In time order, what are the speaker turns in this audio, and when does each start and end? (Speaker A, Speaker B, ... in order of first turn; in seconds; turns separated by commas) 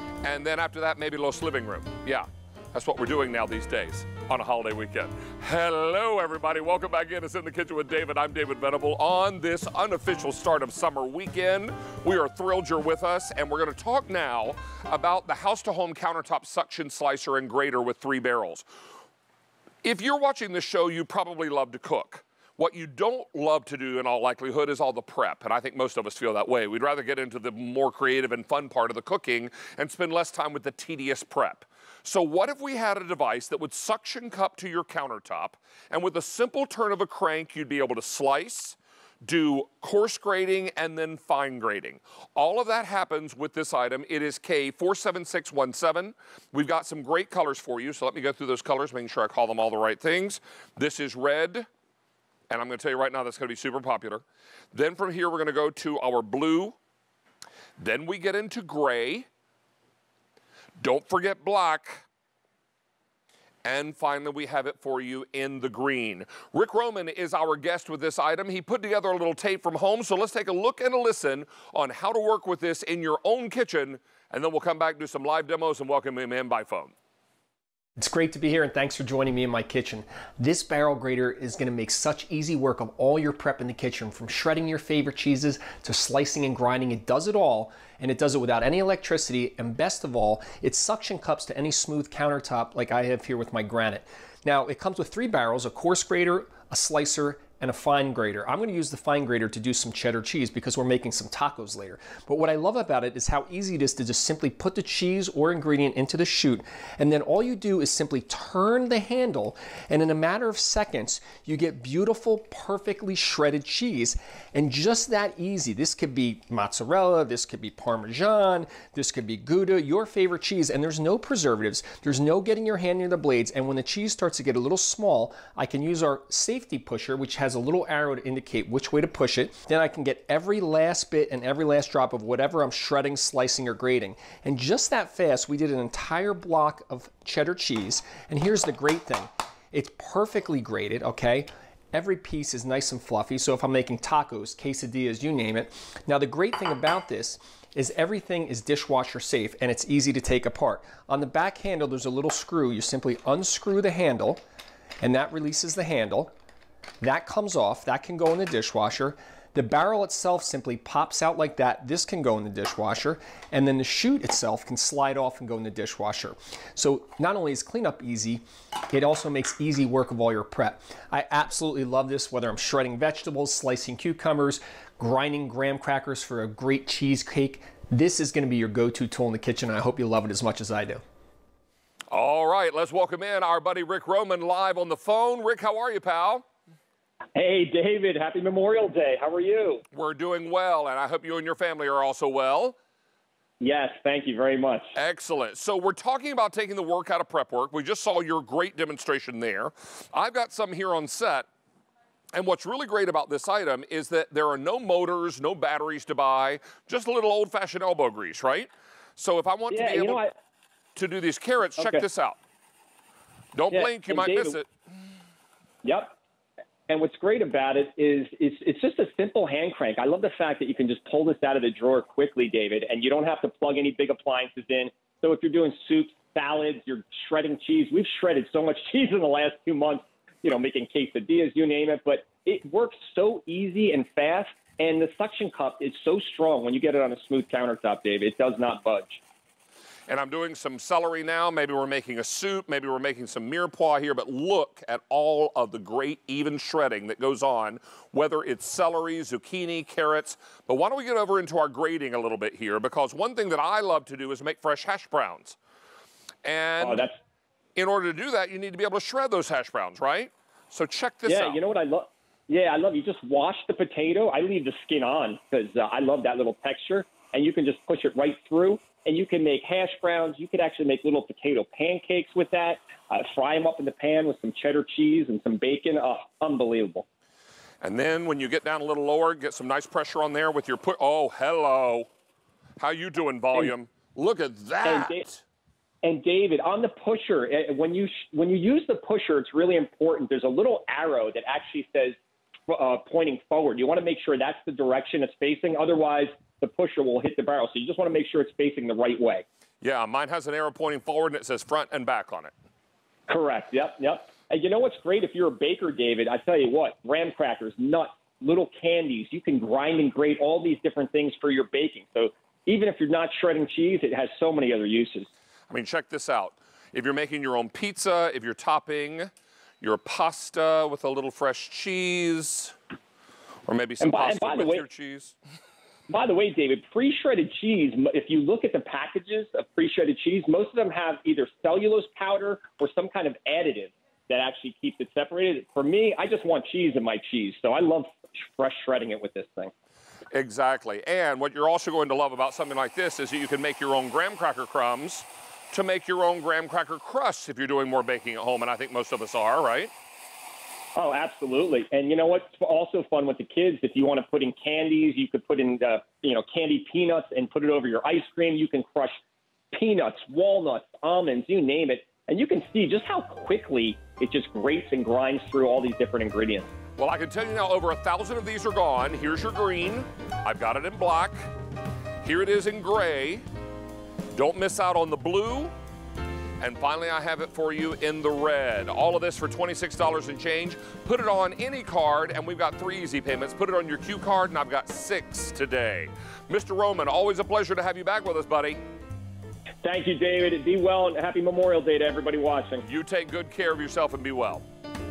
Speaker A: 0.2-18.6, Speaker A: 19.8-51.7, Speaker A: 52.5-56.8, Speaker A: 57.8-59.3, Speaker A: 60.8-62.0, Speaker A: 63.6-76.9, Speaker B: 78.0-154.4, Speaker B: 155.0-156.3, Speaker B: 157.0-181.0, Speaker A: 182.1-186.4, Speaker C: 187.3-189.8, Speaker A: 189.9-192.8, Speaker C: 193.6-194.9, Speaker A: 194.9-201.5, Speaker A: 202.3-210.2, Speaker C: 209.7-210.3, Speaker A: 210.9-212.4, Speaker A: 213.5-214.7, Speaker C: 213.7-214.6, Speaker C: 215.8-216.1, Speaker C: 216.9-239.2, Speaker A: 240.1-255.6, Speaker A: 256.4-257.1, Speaker C: 256.8-257.1, Speaker A: 257.8-261.6, Speaker C: 261.2-277.0, Speaker A: 277.8-282.1, Speaker A: 282.8-285.4, Speaker C: 284.8-285.2, Speaker C: 286.0-299.4, Speaker A: 299.8-302.5, Speaker C: 303.3-315.3, Speaker A: 315.7-322.8, Speaker A: 323.7-325.3, Speaker C: 324.0-324.8, Speaker C: 326.1-339.7, Speaker A: 340.3-349.9, Speaker C: 350.9-359.2, Speaker C: 359.7-366.7, Speaker A: 367.0-371.4, Speaker A: 372.2-373.4, Speaker A: 374.3-375.7, Speaker A: 376.6-388.8, Speaker C: 389.8-392.8, Speaker A: 392.9-394.6